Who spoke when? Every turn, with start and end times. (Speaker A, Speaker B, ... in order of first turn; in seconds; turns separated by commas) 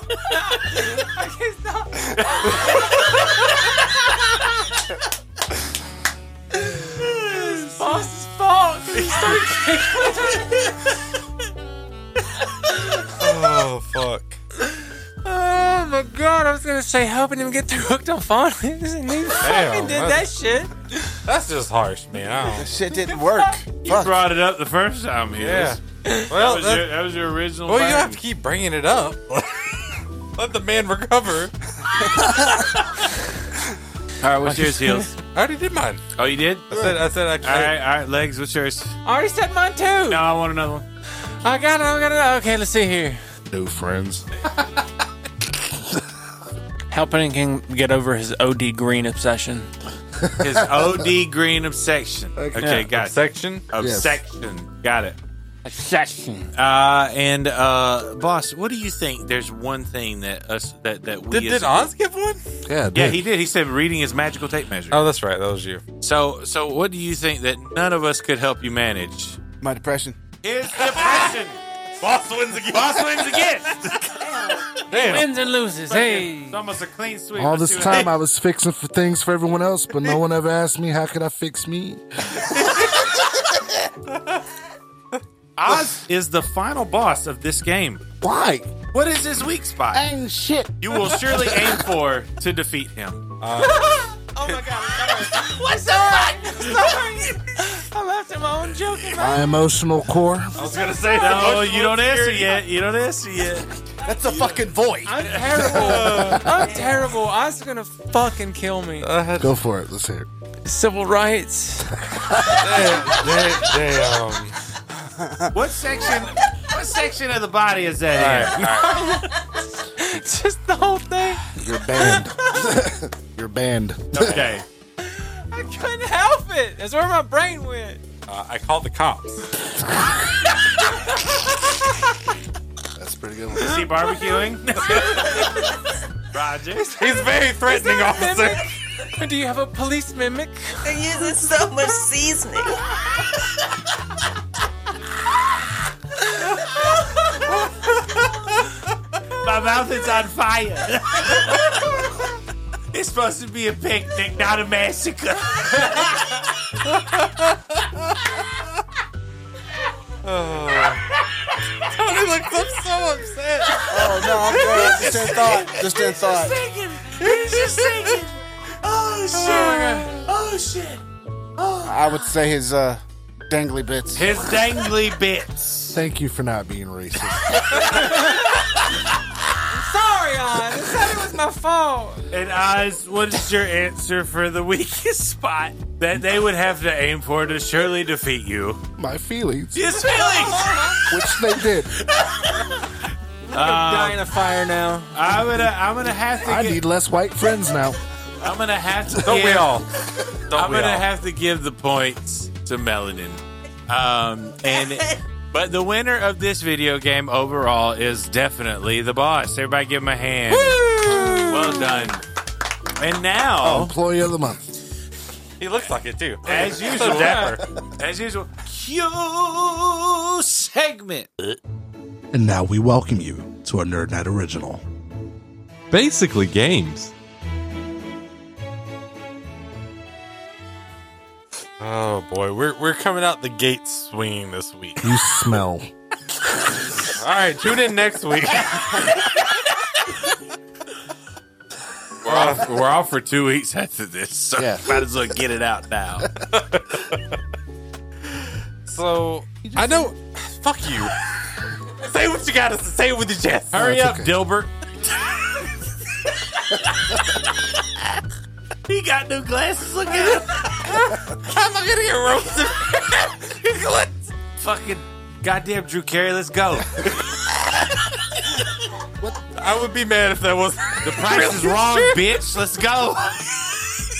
Speaker A: 0.5-2.7, Speaker B: 2.2-2.7, Speaker B: 7.0-7.8, Speaker A: 7.3-10.9, Speaker C: 13.2-14.4, Speaker A: 15.2-20.7, Speaker C: 19.4-20.3, Speaker C: 21.2-22.7, Speaker D: 22.5-24.2, Speaker A: 23.1-23.5, Speaker B: 23.8-25.8, Speaker C: 25.4-27.0, Speaker A: 26.1-26.3, Speaker B: 26.3-28.2, Speaker C: 27.6-31.5, Speaker B: 34.2-35.1, Speaker A: 34.4-35.1, Speaker C: 35.2-36.0, Speaker B: 36.2-36.8, Speaker C: 36.7-37.8, Speaker B: 37.4-39.0, Speaker A: 39.0-40.2, Speaker B: 40.1-40.8, Speaker A: 41.4-43.2, Speaker E: 43.5-44.3, Speaker A: 46.9-49.7, Speaker B: 50.4-53.2, Speaker C: 52.6-53.7, Speaker B: 53.7-55.2, Speaker E: 53.8-54.2, Speaker A: 55.6-56.5, Speaker B: 56.5-61.9, Speaker C: 61.3-62.4, Speaker E: 62.6-63.2, Speaker B: 62.9-65.0, Speaker C: 64.9-65.8, Speaker B: 66.0-69.4, Speaker D: 69.6-70.2, Speaker B: 70.4-71.6, Speaker C: 70.8-71.2, Speaker C: 72.0-74.2, Speaker B: 72.7-74.1, Speaker C: 74.9-75.3, Speaker A: 74.9-76.6, Speaker B: 75.9-78.1, Speaker E: 77.4-82.4, Speaker C: 82.4-83.1, Speaker C: 84.1-84.4, Speaker B: 85.6-88.0, Speaker E: 88.2-88.7, Speaker B: 88.9-90.0, Speaker D: 89.9-90.7, Speaker B: 90.8-93.2, Speaker C: 93.4-94.7, Speaker A: 93.6-99.5, Speaker E: 99.2-100.6, Speaker D: 99.2-99.5, Speaker C: 100.5-102.5, Speaker A: 100.6-102.5, Speaker B: 101.1-103.7, Speaker D: 104.0-106.0, Speaker A: 105.0-109.1, Speaker C: 105.7-106.6, Speaker C: 109.0-109.5, Speaker E: 109.4-110.3, Speaker A: 110.6-112.0, Speaker C: 112.4-114.6, Speaker B: 115.5-119.0, Speaker C: 118.1-119.2, Speaker A: 118.7-122.6, Speaker E: 121.5-124.4, Speaker B: 124.1-124.7, Speaker C: 124.2-124.5, Speaker A: 125.0-128.0, Speaker C: 128.3-129.4, Speaker E: 132.9-133.9, Speaker B: 133.6-135.6, Speaker B: 136.3-137.0, Speaker C: 136.9-138.7, Speaker A: 137.6-140.8, Speaker F: 140.8-142.8, Speaker B: 149.4-151.9, Speaker B: 152.9-156.3, Speaker C: 156.8-158.2, Speaker C: 160.2-161.0, Speaker C: 161.8-164.3, Speaker D: 163.9-166.6, Speaker B: 164.1-171.0, Speaker A: 164.7-165.2, Speaker A: 166.4-167.1, Speaker C: 167.2-168.2, Speaker C: 169.3-170.3, Speaker B: 171.6-172.3, Speaker D: 171.8-174.4, Speaker B: 174.1-176.0, Speaker E: 175.9-177.8, Speaker A: 178.0-178.6, Speaker A: 179.7-182.2, Speaker B: 182.3-188.8, Speaker E: 189.0-190.0, Speaker B: 189.7-191.0, Speaker A: 190.5-191.0, Speaker E: 191.1-191.9, Speaker A: 193.5-195.6, Speaker B: 193.5-194.2, Speaker B: 195.1-196.8, Speaker E: 196.4-198.0, Speaker B: 198.4-199.8, Speaker C: 199.2-201.1, Speaker B: 200.5-212.2, Speaker C: 210.5-212.1, Speaker B: 212.9-213.9, Speaker E: 213.6-214.7, Speaker C: 215.6-217.6, Speaker B: 216.4-221.3, Speaker E: 222.3-224.8, Speaker C: 225.9-227.1, Speaker C: 231.8-235.1, Speaker E: 235.0-235.9, Speaker C: 237.0-239.4, Speaker B: 242.2-246.3, Speaker C: 242.3-242.7, Speaker E: 244.6-245.0, Speaker C: 246.5-247.3, Speaker C: 248.3-251.1, Speaker E: 249.6-250.1, Speaker C: 251.8-253.9, Speaker B: 253.7-254.7, Speaker E: 253.7-254.3, Speaker B: 258.9-260.7, Speaker C: 260.1-263.9, Speaker B: 264.6-267.2, Speaker C: 269.4-272.4, Speaker B: 271.0-273.4